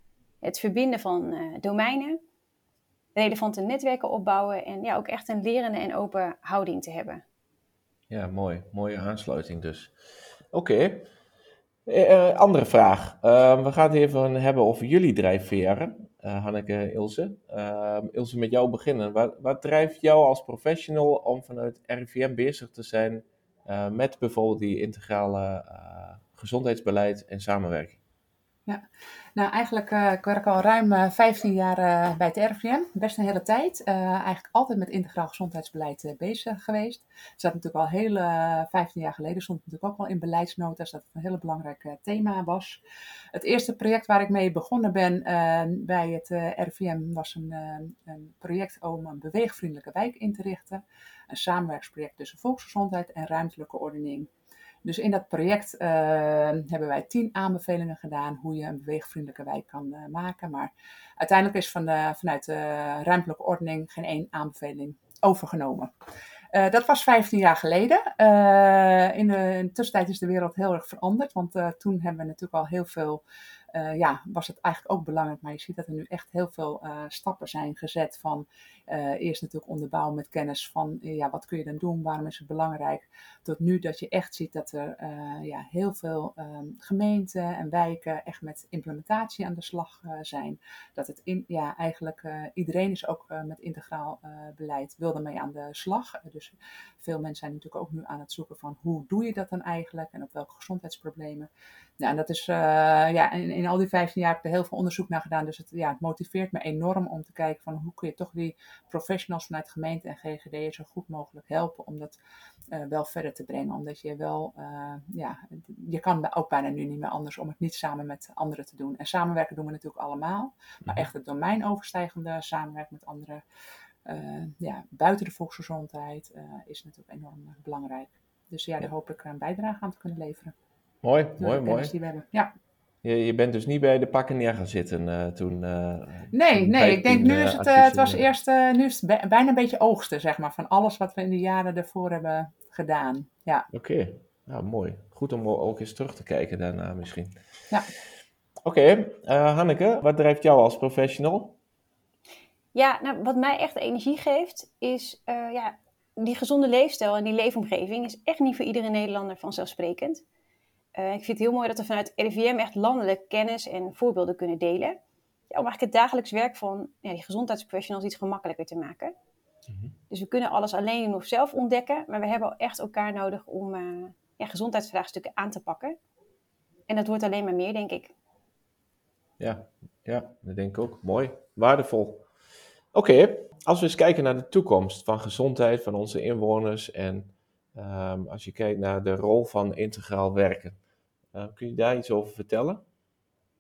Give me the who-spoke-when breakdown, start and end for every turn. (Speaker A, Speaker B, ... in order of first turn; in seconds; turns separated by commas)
Speaker A: 0.4-2.2, Speaker A: 3.2-7.2, Speaker B: 8.1-10.0, Speaker B: 10.5-11.1, Speaker B: 11.9-28.0, Speaker C: 29.4-42.8, Speaker C: 43.3-54.3, Speaker C: 54.8-65.9, Speaker C: 66.5-101.5, Speaker C: 102.0-112.2, Speaker C: 112.7-123.4, Speaker C: 124.1-130.5, Speaker B: 131.0-131.9, Speaker C: 131.4-132.5, Speaker B: 133.0-138.2, Speaker C: 136.3-143.7, Speaker B: 143.7-147.4, Speaker B: 148.7-151.6, Speaker A: 152.8-160.2, Speaker A: 160.9-165.0, Speaker A: 165.5-169.1, Speaker B: 169.7-169.9, Speaker A: 170.1-176.0, Speaker A: 176.9-178.1, Speaker B: 179.4-182.3, Speaker B: 182.9-190.8, Speaker B: 191.3-192.8